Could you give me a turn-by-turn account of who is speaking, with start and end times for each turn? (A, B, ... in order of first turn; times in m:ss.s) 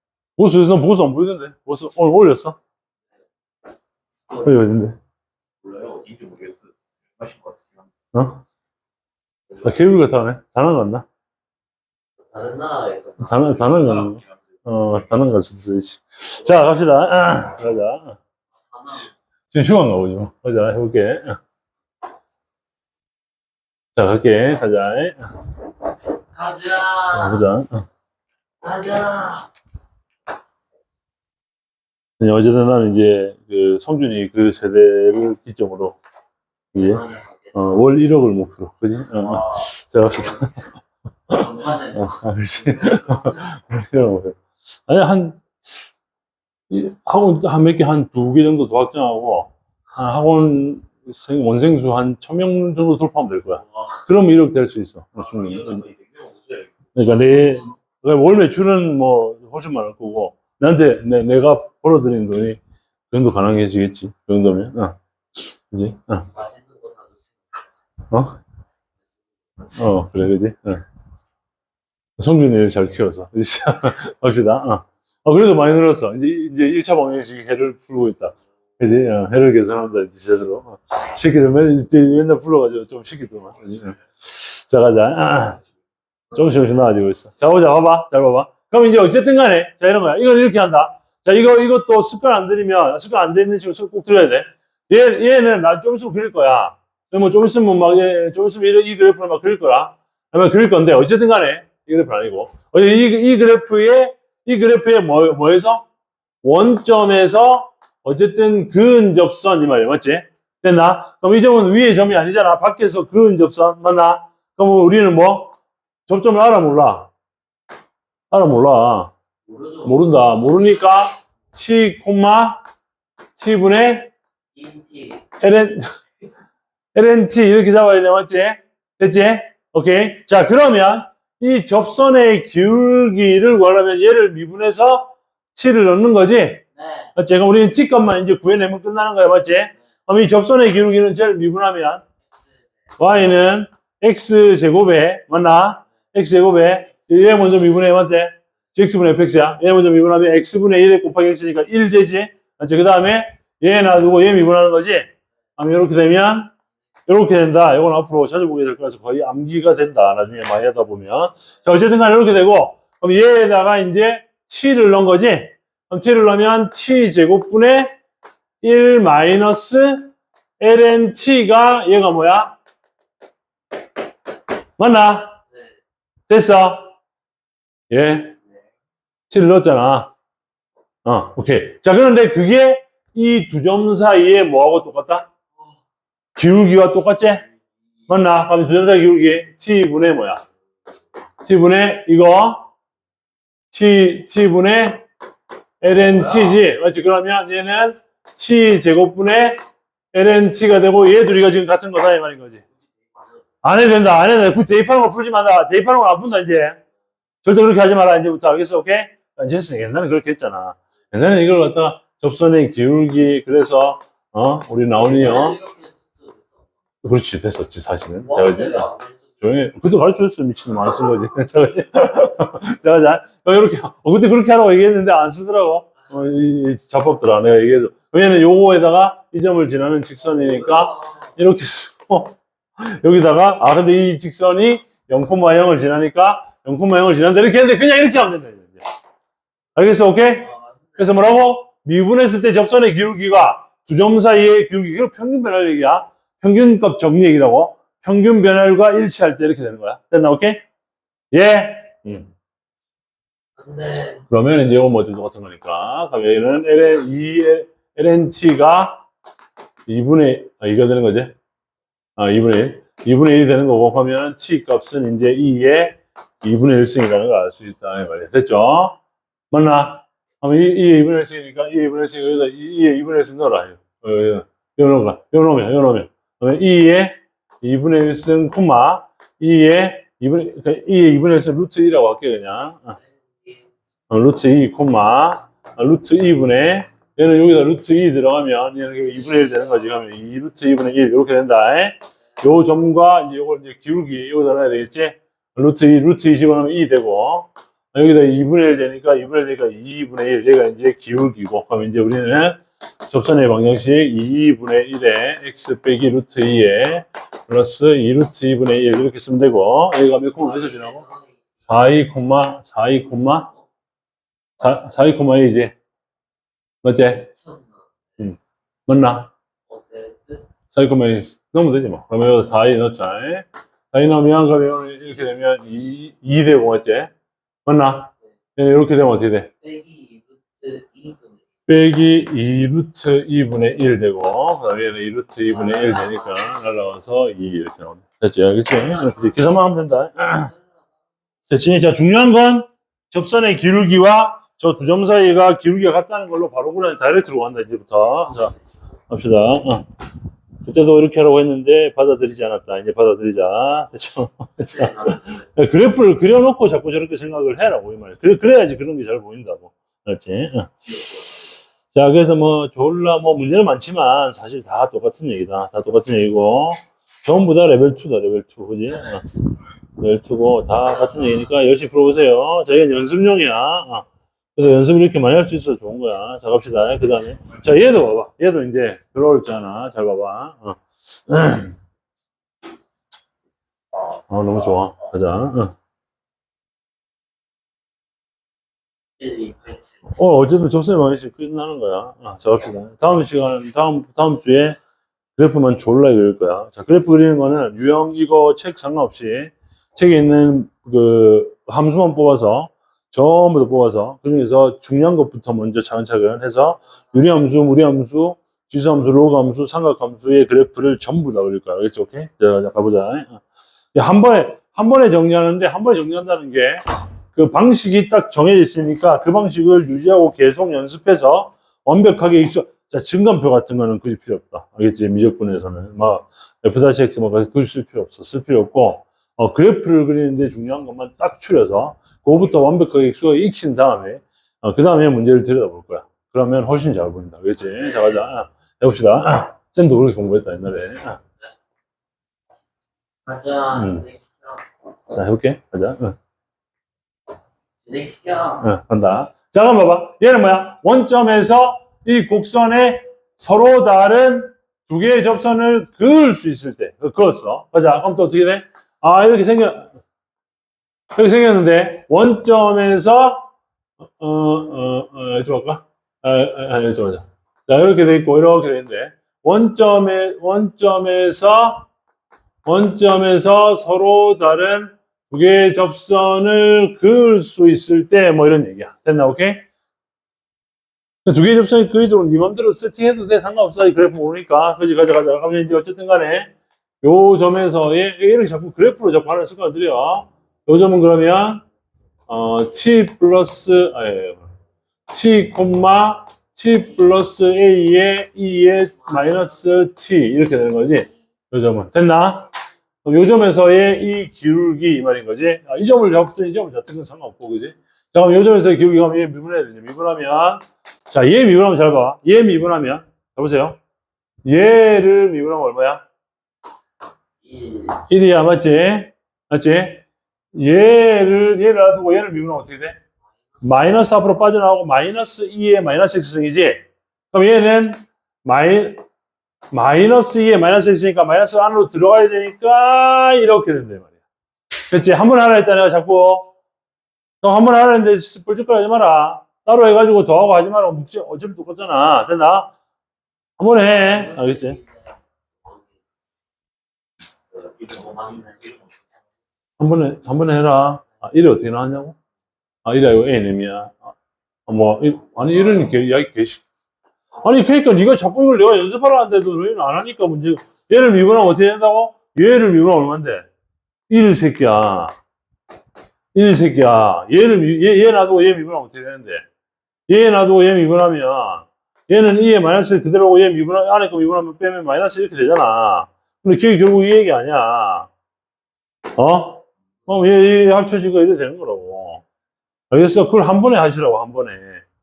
0:00.4-0:02.6 A
0:04.3-0:04.6 B
0:04.4-0:05.0 A
0:05.6-0:07.9 C
0:08.1-0:08.4 A
0:09.6-0:11.0 A
0:12.3-0:13.6 B
0:13.2-0:18.2 A
0:13.6-0:14.5 C
0:18.7-0:19.1 B
0:19.5-0:21.4 A
0:23.9-0:25.3 A
0:26.3-0:27.4 B
0:27.1-0:27.8 A
0:28.6-0:29.5 B
0:32.2-0:36.0 A
0:36.7-0:37.0 A
0:36.7-0:37.8 B
0:37.5-0:40.6 A
0:39.2-0:39.6 B
0:41.3-0:45.4 A
0:41.3-0:43.4 B
0:46.7-0:55.8 A
0:55.2-0:56.8 C
0:56.9-1:02.6 A
1:03.1-1:05.0 A
1:05.7-1:06.3 A
1:06.3-1:07.6 B
1:08.1-1:08.4 A
1:09.7-1:10.8 A
1:12.2-1:25.6 A
1:26.3-1:45.8 A
1:46.4-1:55.5 A
1:56.1-1:57.1 A
1:58.3-1:59.1 A
1:59.4-2:01.1 B
1:59.8-2:02.6 A
2:03.4-2:04.1 A
2:04.5-2:05.2 B
2:05.4-2:05.9 A
2:06.9-2:16.6 A
2:16.8-2:17.1 B
2:17.2-2:22.0 A
2:23.0-2:36.5 A
2:37.1-2:48.0 A
2:48.6-2:52.6 A
2:54.8-2:55.4 A
2:56.3-2:56.9 A
2:57.9-2:58.4 A
2:59.3-3:00.1 A
3:01.0-3:05.3 A
3:06.4-3:07.4 A
3:08.1-3:10.4 A
3:11.4-3:12.7 A
3:13.7-3:15.0 A
3:15.8-3:19.6 A
3:20.1-3:22.6 A
3:23.6-3:26.8 A
3:27.4-3:35.6 A
3:34.9-3:36.5 B
3:37.0-3:38.9 A
3:38.2-3:39.3 B
3:39.4-3:58.8 A
3:50.3-3:51.2 B
3:59.7-4:10.6 A
4:00.4-4:01.2 B
4:11.3-4:12.3 A
4:13.6-4:14.2 B
4:14.3-4:19.0 A
4:19.9-4:21.3 A
4:22.2-4:29.0 A
4:29.5-4:43.0 A
4:43.0-4:43.6 B
4:44.1-5:11.0 A
4:49.1-4:49.9 B
5:10.4-5:11.4 B
5:11.7-5:13.5 A
5:14.6-5:15.7 A
5:16.8-5:17.3 A
5:17.2-5:17.7 B
5:18.2-5:19.3 A
5:19.7-5:20.4 B
5:20.7-5:27.1 A
5:27.6-5:29.5 A
5:29.6-5:31.4 B
5:31.7-5:40.5 A
5:35.5-5:36.7 B
5:38.9-5:39.3 B
5:41.5-5:48.5 A
5:48.2-5:48.6 B
5:49.1-5:49.8 A
5:50.6-6:00.7 A
5:54.6-5:55.7 B
6:01.9-6:09.2 A
6:08.9-6:09.3 B
6:10.0-6:21.8 A
6:11.1-6:11.5 B
6:24.3-6:25.7 A
6:29.2-6:30.0 B
6:30.1-6:34.8 A
6:35.4-6:53.4 A
6:53.9-6:56.8 A
6:57.3-7:21.2 A
7:17.6-7:18.2 B
7:23.2-7:24.6 B
7:23.7-7:24.0 A
7:25.1-7:26.2 A
7:27.8-7:28.6 B
7:28.6-7:39.9 A
7:41.1-7:43.5 A
7:44.2-7:51.9 A
7:52.6-7:59.6 A
8:01.2-8:06.5 A
8:07.0-8:11.6 A
8:12.3-8:14.5 A
8:15.1-8:22.5 A
8:23.0-8:33.8 A
8:34.4-8:36.0 A
8:37.4-8:38.0 B
8:38.1-8:40.0 A
8:40.5-8:43.0 A
8:43.6-8:49.0 A
8:49.7-8:54.1 A
8:54.9-8:56.5 A
8:57.4-9:02.7 A
9:03.6-9:04.8 A
9:03.9-9:05.8 B
9:07.5-9:09.1 C
9:09.8-9:12.2 A
9:12.8-9:14.1 A
9:14.7-9:16.6 A
9:17.4-9:23.5 A
9:24.1-9:25.1 A
9:26.3-9:29.4 A
9:30.1-9:38.1 A
9:39.2-9:42.2 A
9:42.9-9:44.8 A